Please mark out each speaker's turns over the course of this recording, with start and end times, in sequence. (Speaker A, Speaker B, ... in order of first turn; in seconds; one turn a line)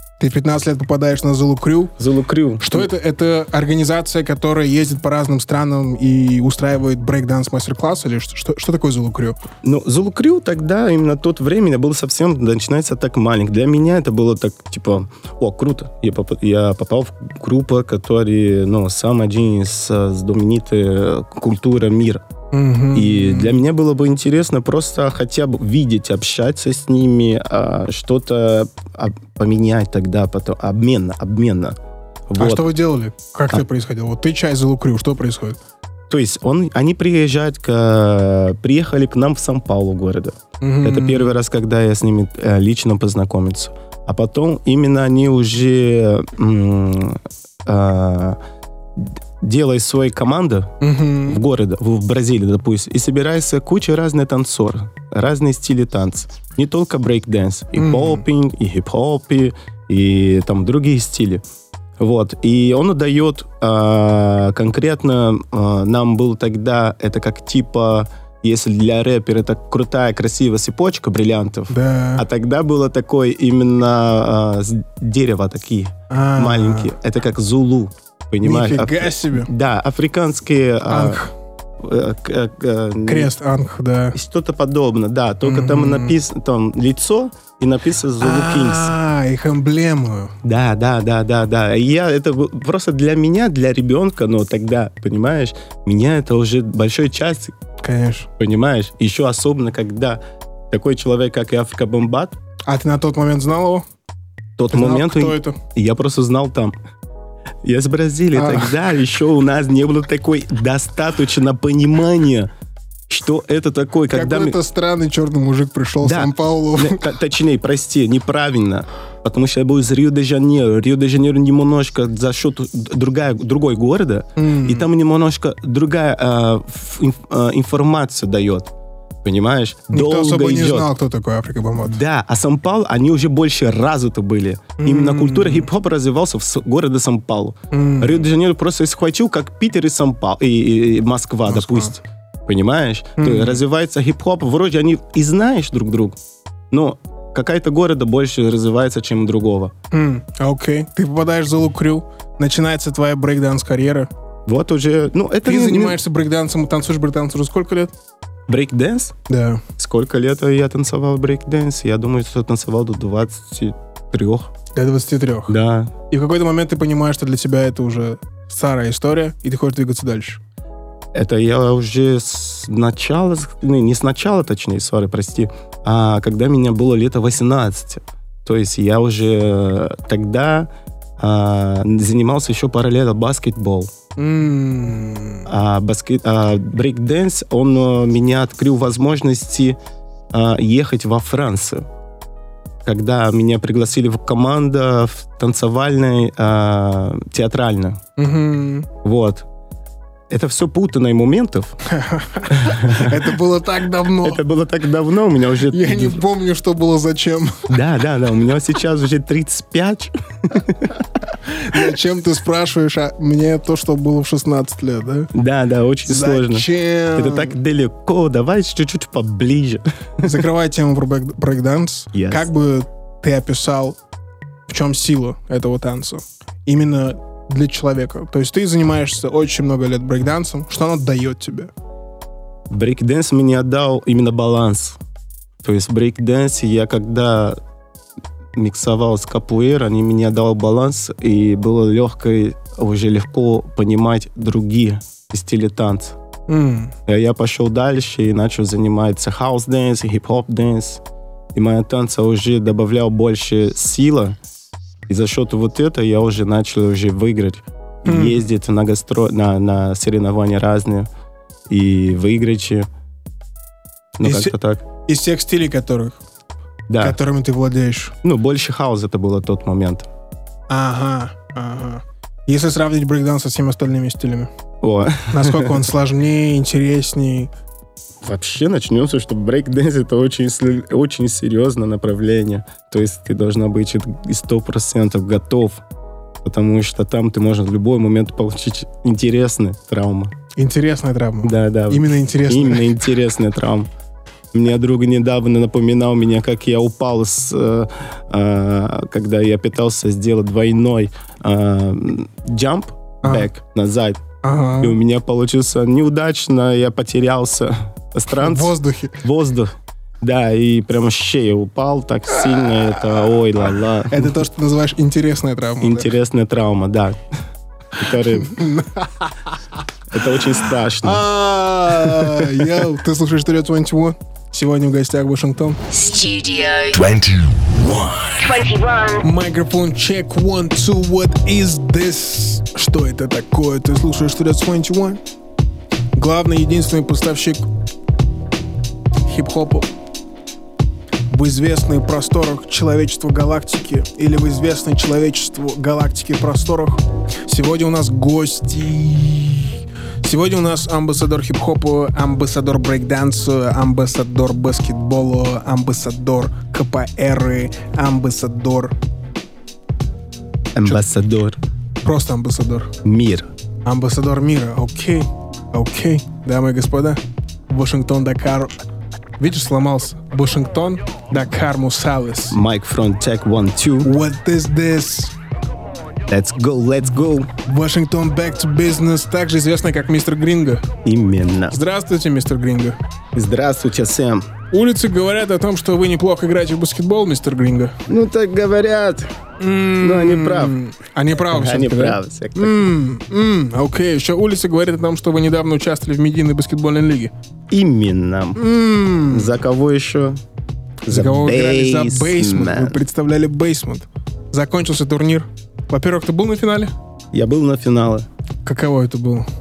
Speaker A: 0.2-1.9
Speaker B: 2.0-2.9
Speaker A: 2.6-9.4
Speaker B: 9.6-22.2
Speaker A: 22.5-23.6
Speaker B: 22.9-31.8
Speaker B: 32.3-32.7
Speaker A: 32.4-35.6
Speaker B: 36.1-48.4
Speaker A: 40.6-41.4
Speaker B: 49.0-50.7
Speaker A: 50.8-51.4
Speaker B: 51.3-61.4
Speaker A: 57.8-58.2
Speaker B: 62.0-81.2
Speaker A: 71.7-72.2
Speaker A: 76.1-76.9
Speaker A: 78.4-79.5
Speaker A: 80.9-81.3
Speaker B: 81.8-83.3
Speaker A: 83.1-84.2
Speaker B: 84.1-88.9
Speaker A: 85.4-86.2
Speaker A: 88.2-90.3
Speaker B: 90.4-97.5
Speaker A: 97.8-98.3
Speaker B: 98.4-100.2
Speaker B: 100.7-102.3
Speaker A: 102.7-103.8
Speaker B: 104.6-106.8
Speaker A: 104.7-105.6
Speaker B: 107.6-112.5
Speaker A: 108.3-108.7
Speaker B: 113.1-114.6
Speaker A: 114.1-117.0
Speaker B: 116.0-128.7
Speaker A: 124.4-124.9
Speaker B: 129.2-130.9
Speaker A: 129.9-132.0
Speaker B: 131.8-146.2
Speaker A: 134.8-135.7
Speaker A: 137.7-138.2
Speaker A: 141.5-141.9
Speaker A: 143.2-143.6
Speaker B: 146.7-149.7
Speaker A: 149.9-154.1
Speaker B: 154.5-156.0
Speaker A: 155.4-157.9
Speaker B: 158.5-159.1
Speaker A: 159.3-159.6
Speaker B: 159.8-164.5
Speaker A: 164.8-165.5
Speaker B: 165.5-165.9
Speaker A: 166.1-170.4
Speaker B: 171.1-183.9
Speaker A: 184.2-185.5
Speaker B: 185.5-189.8
Speaker B: 190.3-191.9
Speaker B: 192.8-198.0
Speaker A: 198.2-198.9
Speaker B: 199.0-199.5
Speaker B: 200.3-201.8
Speaker A: 201.9-204.4
Speaker B: 202.5-203.3
Speaker B: 204.2-206.2
Speaker A: 205.7-207.7
Speaker B: 207.7-211.0
Speaker A: 211.4-215.3
Speaker B: 215.3-220.4
Speaker A: 216.1-217.6
Speaker A: 220.2-224.0
Speaker B: 222.1-222.5
Speaker A: 224.7-231.7
Speaker B: 232.7-235.0
Speaker B: 235.6-237.6
Speaker B: 238.6-246.2
Speaker A: 246.5-246.9
Speaker B: 247.1-251.0
Speaker B: 251.5-254.4
Speaker B: 255.1-261.1
Speaker A: 258.1-258.4
Speaker B: 261.7-262.9
Speaker B: 264.2-264.8
Speaker A: 264.2-264.5
Speaker A: 265.1-266.2
Speaker B: 266.9-267.2
Speaker A: 267.0-268.1
Speaker B: 268.2-270.1
Speaker A: 270.7-274.5
Speaker B: 274.8-275.8
Speaker A: 275.3-277.5
Speaker B: 278.2-285.8
Speaker B: 286.4-290.3
Speaker A: 290.6-292.9
Speaker B: 291.4-293.9
Speaker B: 294.5-304.2
Speaker A: 303.2-303.5
Speaker A: 304.4-305.0
Speaker B: 304.8-314.3
Speaker A: 308.3-309.2
Speaker A: 314.1-316.1
Speaker B: 315.8-317.2
Speaker B: 318.0-318.6
Speaker A: 318.4-319.5
Speaker B: 320.1-321.2
Speaker A: 321.0-325.8
Speaker B: 321.9-322.7
Speaker C: 325.9-327.4
Speaker C: 328.1-329.2
Speaker A: 329.2-335.2
Speaker A: 336.1-337.6
Speaker A: 339.3-339.9
Speaker A: 341.3-358.9
Speaker B: 360.8-361.6
Speaker A: 362.0-362.9
Speaker B: 363.0-363.5
Speaker A: 363.9-368.7
Speaker A: 369.4-372.6
Speaker B: 372.5-374.1
Speaker A: 374.0-375.3
Speaker B: 376.3-377.5
Speaker A: 377.6-380.9
Speaker B: 381.1-381.8
Speaker A: 381.7-383.0
Speaker B: 383.4-384.5
Speaker A: 384.7-388.0
Speaker B: 388.1-389.3
Speaker A: 389.6-397.3
Speaker B: 390.0-390.8
Speaker B: 391.5-392.9
Speaker B: 397.7-398.6
Speaker A: 398.6-399.5
Speaker B: 399.3-400.4
Speaker B: 401.1-403.0
Speaker A: 401.1-406.9
Speaker B: 407.3-408.3
Speaker A: 408.6-409.5